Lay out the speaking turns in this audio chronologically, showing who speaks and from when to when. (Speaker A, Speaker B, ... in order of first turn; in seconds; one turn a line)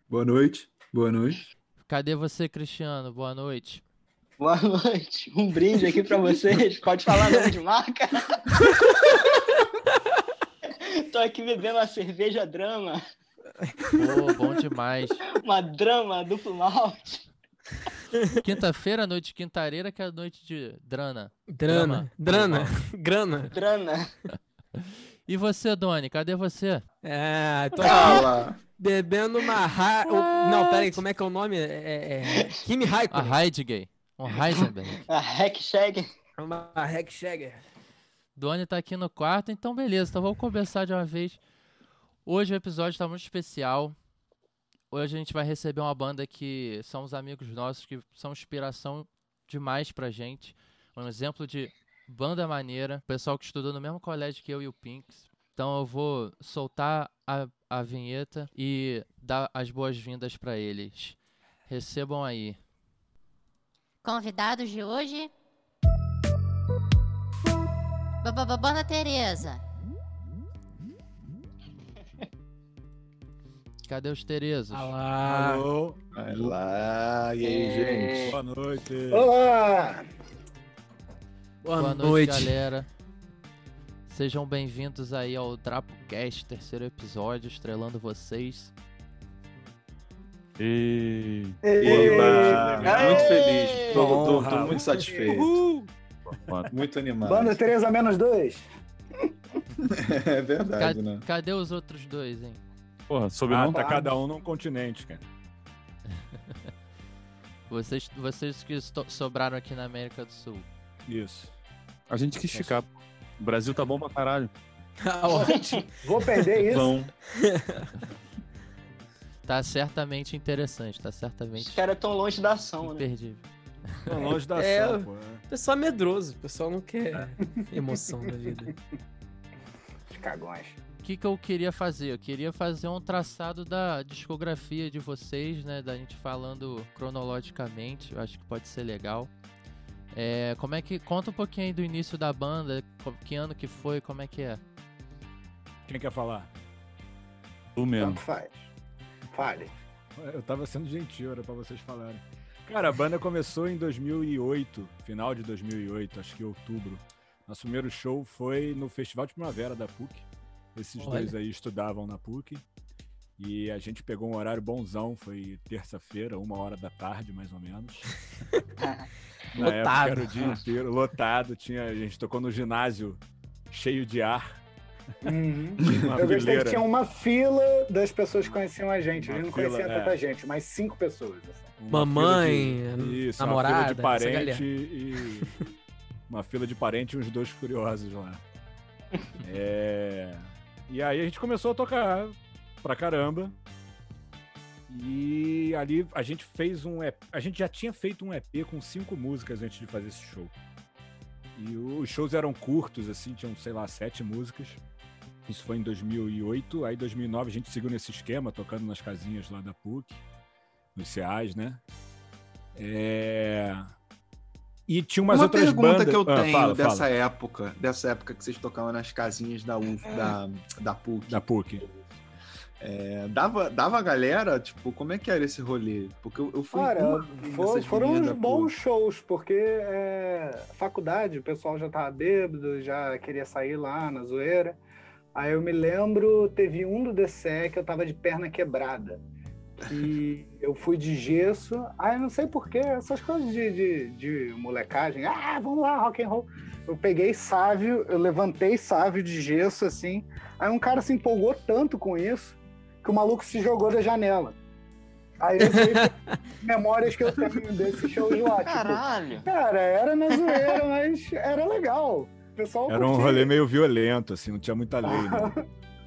Speaker A: 0.1-1.4
Speaker B: 1.9-3.8
Speaker C: 4.4-9.3
Speaker D: 7.1-7.5
Speaker C: 10.9-13.0
Speaker B: 13.9-15.2
Speaker C: 15.4-17.3
Speaker B: 18.4-22.1
Speaker D: 21.5-23.5
Speaker E: 22.3-22.7
Speaker C: 23.5-24.1
Speaker B: 24.8-26.8
Speaker D: 27.0-33.4
Speaker A: 27.8-28.6
Speaker C: 27.8-28.1
Speaker B: 30.1-30.9
Speaker B: 33.1-35.0
Speaker C: 35.0-36.1
Speaker D: 36.4-37.6
Speaker B: 38.4-41.4
Speaker B: 42.2-44.0
Speaker B: 44.9-62.6
Speaker F: 64.0-65.3
Speaker F: 68.2-69.6
Speaker B: 73.8-74.9
Speaker D: 74.7-75.7
Speaker E: 75.2-76.0
Speaker A: 76.1-78.4
Speaker C: 77.4-78.4
Speaker E: 78.3-79.3
Speaker G: 79.1-80.0
Speaker D: 81.6-82.6
Speaker B: 81.8-82.9
Speaker B: 84.1-88.7
Speaker H: 90.6-91.6
Speaker G: 91.6-93.5
Speaker A: 91.8-95.6
Speaker E: 91.8-95.9
Speaker C: 92.8-94.4
Speaker G: 94.0-95.4
Speaker H: 96.3-96.7
Speaker A: 96.7-97.6
Speaker G: 97.2-98.7
Speaker A: 99.8-101.2
Speaker B: 100.8-102.6
Speaker H: 103.1-103.8
Speaker E: 103.5-105.2
Speaker G: 103.6-104.1
Speaker B: 107.7-110.7
Speaker E: 111.1-111.5
Speaker H: 112.1-114.5
Speaker D: 115.0-115.8
Speaker C: 115.3-115.8
Speaker G: 116.0-117.1
Speaker A: 116.7-117.1
Speaker D: 117.3-117.9
Speaker B: 119.4-121.8
Speaker C: 121.6-123.0
Speaker B: 122.8-123.4
Speaker E: 124.0-125.4
Speaker D: 124.5-128.7
Speaker G: 130.1-130.8
Speaker B: 131.0-139.3
Speaker B: 140.1-144.6
Speaker E: 145.9-146.5
Speaker H: 147.8-148.2
Speaker G: 148.0-148.7
Speaker G: 149.3-149.7
Speaker E: 150.2-162.6
Speaker D: 161.0-161.3
Speaker E: 163.4-168.1
Speaker E: 169.5-174.6
Speaker D: 169.6-170.6
Speaker G: 175.2-181.7
Speaker E: 175.8-176.8
Speaker E: 179.2-180.2
Speaker E: 181.8-185.7
Speaker D: 181.9-184.6
Speaker E: 186.3-188.4
Speaker E: 189.4-193.5
Speaker E: 194.9-200.5
Speaker E: 201.5-204.8
Speaker E: 205.4-210.2
Speaker E: 210.9-211.8
Speaker E: 212.8-213.9
Speaker E: 214.9-217.0
Speaker A: 215.3-221.4
Speaker E: 221.3-221.8
Speaker A: 222.8-228.7
Speaker G: 226.7-234.8
Speaker G: 235.3-239.2
Speaker G: 239.8-254.6
Speaker G: 255.4-263.5
Speaker D: 255.7-256.4
Speaker C: 258.4-259.5
Speaker C: 260.4-260.7
Speaker E: 262.9-265.6
Speaker G: 265.0-265.6